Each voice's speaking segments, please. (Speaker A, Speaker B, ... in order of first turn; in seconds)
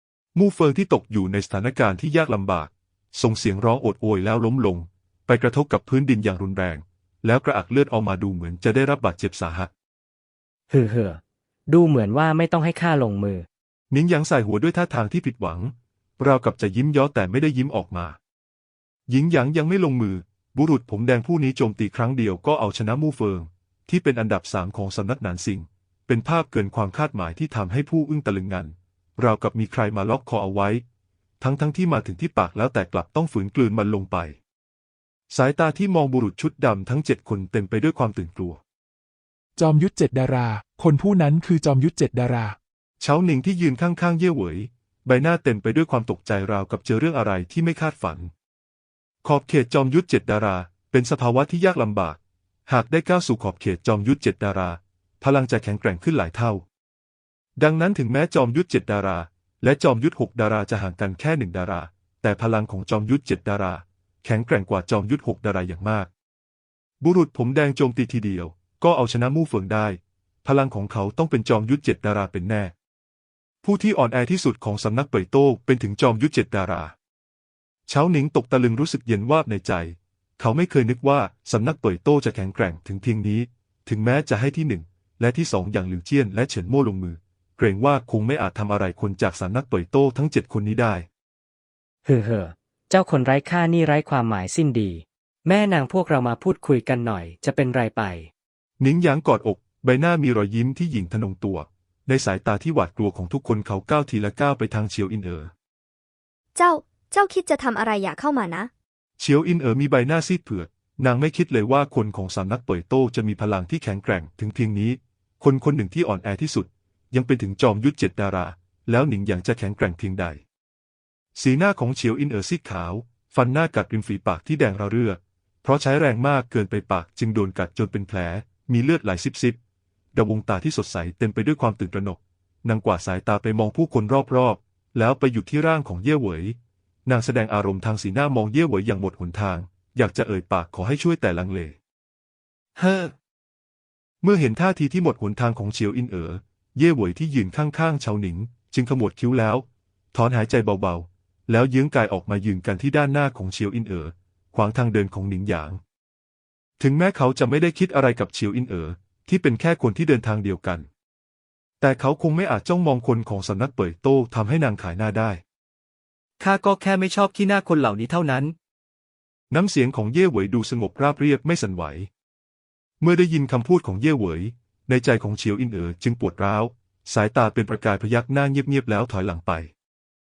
Speaker A: 0.3-9.7, 13.9-18.2, 19.1-30.8, 31.4-34.4, 35.3-38.6, 43.0-48.3, 49.2-56.6, 57.6-66.1, 67.0-72.7, 73.6-76.9, 77.9-91.1, 98.8-105.5, 109.2-120.4, 121.4-129.6, 130.1-141.8, 144.2-155.8, 156.8-160.9, 161.8-165.4, 169.5-172.1, 173.0-179.7
Speaker B: 10.7-13.5, 92.0-98.3
Speaker C: 39.6-42.6
Speaker D: 106.5-108.7
Speaker E: 142.8-143.1, 166.4-168.6